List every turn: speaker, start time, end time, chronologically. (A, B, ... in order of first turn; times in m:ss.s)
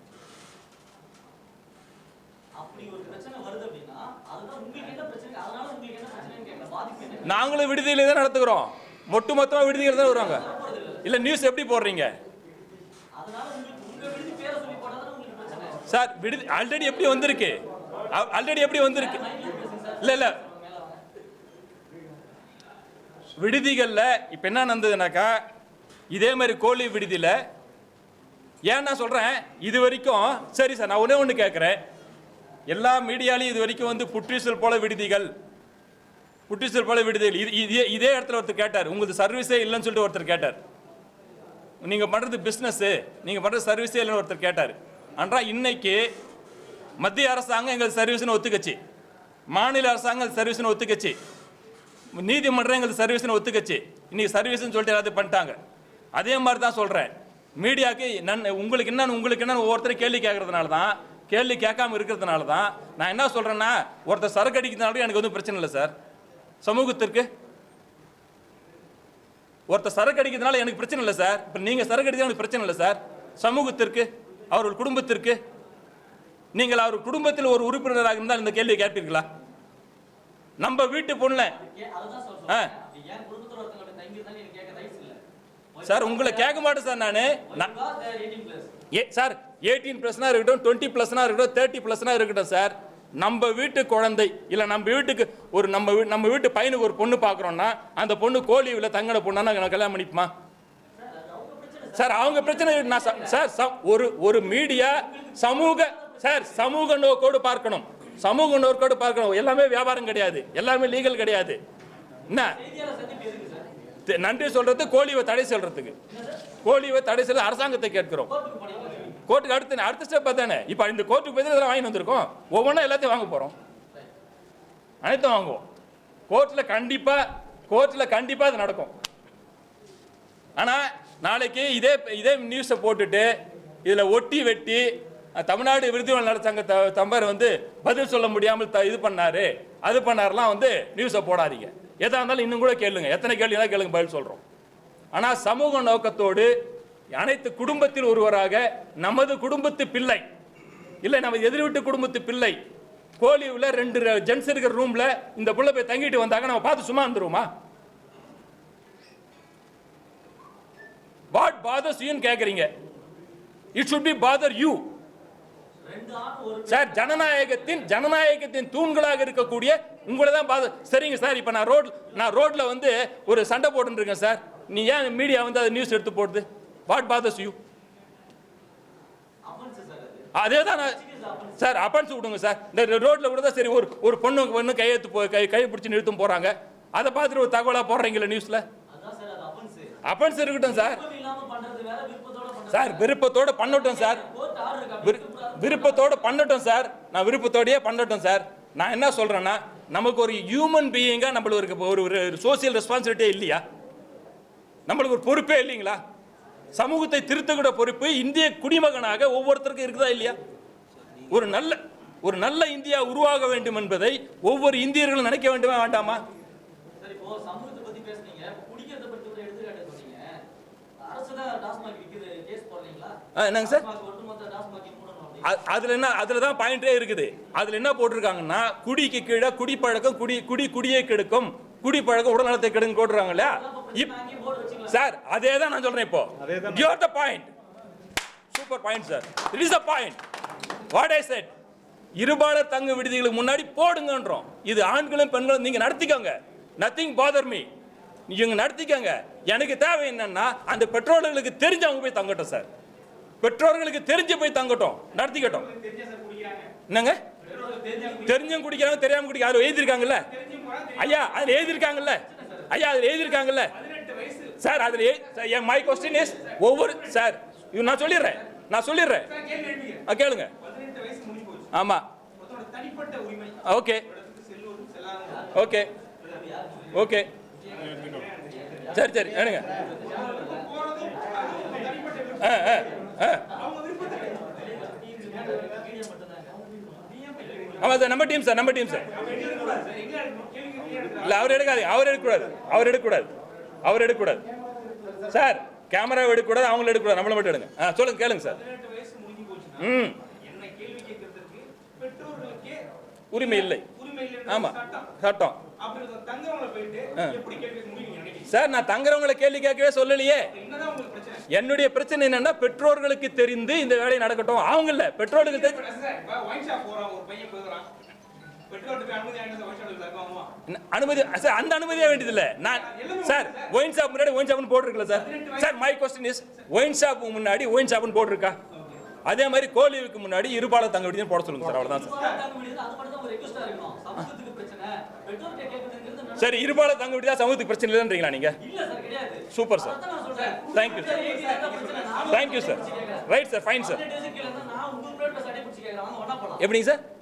0:02.6-0:07.4 A
0:07.2-0:10.4 B
0:09.8-0:11.1 A
0:11.0-0:12.2 B
0:13.2-0:15.8 A
0:15.9-0:19.2 B
0:18.9-0:21.0 A
0:20.0-0:20.4 B
0:23.4-0:25.4 B
0:26.1-0:27.4 B
0:28.7-0:31.8 B
0:32.7-0:35.3 B
0:36.5-0:40.6 B
0:41.8-0:46.1 B
0:47.0-0:48.8 B
0:49.5-0:51.2 B
0:52.1-0:55.6 B
0:56.1-1:05.9 B
1:06.6-1:07.3 B
1:09.7-1:15.4 B
1:16.5-1:19.3 B
1:20.6-1:21.6 B
1:21.5-1:25.2 A
1:25.7-1:26.8 A
1:25.8-1:27.7 B
1:27.4-1:28.7 A
1:28.9-1:40.3 B
1:41.0-1:43.4 A
1:42.0-1:51.6 B
1:44.6-1:46.6 A
1:52.3-1:52.6 B
1:52.4-1:53.6 A
1:54.1-1:56.0 B
1:56.1-1:56.4 A
1:56.6-1:58.3 B
1:58.2-1:59.2 A
1:59.3-2:03.5 B
2:05.0-2:05.6 B
2:06.3-2:08.9 B
2:10.6-2:13.3 B
2:13.8-2:24.4 B
2:25.1-2:26.5 B
2:27.1-2:30.2 B
2:31.0-2:32.6 B
2:33.2-2:37.5 B
2:41.3-2:42.7 B
2:43.7-2:44.9 B
2:45.9-2:47.9 A
2:46.7-2:57.6 B
2:59.4-3:01.7 A
3:00.4-3:01.0 B
3:01.6-3:08.6 B
3:08.9-3:10.0 A
3:10.0-3:11.0 B
3:10.6-3:13.1 A
3:12.7-3:14.2 B
3:13.6-3:16.4 A
3:15.0-3:23.6 B
3:24.9-3:26.0 B
3:26.7-3:30.4 B
3:31.3-3:36.2 B
3:37.0-3:40.4 A
3:41.0-3:45.6 A
3:43.4-3:43.9 B
3:45.4-3:54.1 B
3:53.3-3:55.0 A
3:54.9-3:57.5 B
3:58.5-4:00.2 B
4:00.9-4:01.5 B
4:02.2-4:07.7 B
4:08.3-4:12.7 B
4:13.4-4:15.7 B
4:15.2-4:16.7 C
4:16.9-4:17.2 B
4:17.4-4:18.4 A
4:17.4-4:18.4 C
4:18.2-4:20.3 B
4:19.9-4:21.6 C
4:21.0-4:23.7 B
4:21.9-4:22.7 A
4:23.5-4:25.2 C
4:24.6-4:29.3 B
4:26.1-4:26.9 C
4:29.2-4:30.1 C
4:30.1-4:30.5 B
4:30.6-4:31.7 C
4:31.7-4:32.1 B
4:32.4-4:35.5 C
4:33.6-4:34.0 B
4:35.5-4:35.9 B
4:36.2-4:37.0 A
4:36.9-4:37.3 B
4:37.7-4:39.0 C
4:38.7-4:40.7 A
4:38.9-4:39.7 B
4:39.9-4:44.9 C
4:42.4-4:43.5 B
4:44.3-4:48.0 A
4:47.8-4:49.1 B
4:49.0-4:51.6 C
4:51.2-4:53.3 B
4:53.8-4:54.4 B
4:55.3-4:58.6 B
4:58.3-5:05.1 C
4:59.8-5:00.2 B
5:03.3-5:03.9 B
5:04.5-5:05.6 B
5:05.8-5:08.5 C
5:08.5-5:10.5 B
5:10.5-5:11.4 C
5:11.5-5:15.9 B
5:15.3-5:17.9 C
5:18.7-5:20.5 C
5:20.7-5:28.6 B
5:22.6-5:23.7 C
5:25.1-5:25.8 C
5:28.7-5:29.0 C
5:29.2-5:32.2 B
5:31.6-5:36.8 A
5:32.1-5:32.4 C
5:36.4-5:38.6 B
5:38.6-5:46.7 A
5:39.5-5:40.0 B
5:40.3-5:43.0 C
5:40.7-5:41.2 B
5:42.3-5:44.0 B
5:46.6-5:47.0 B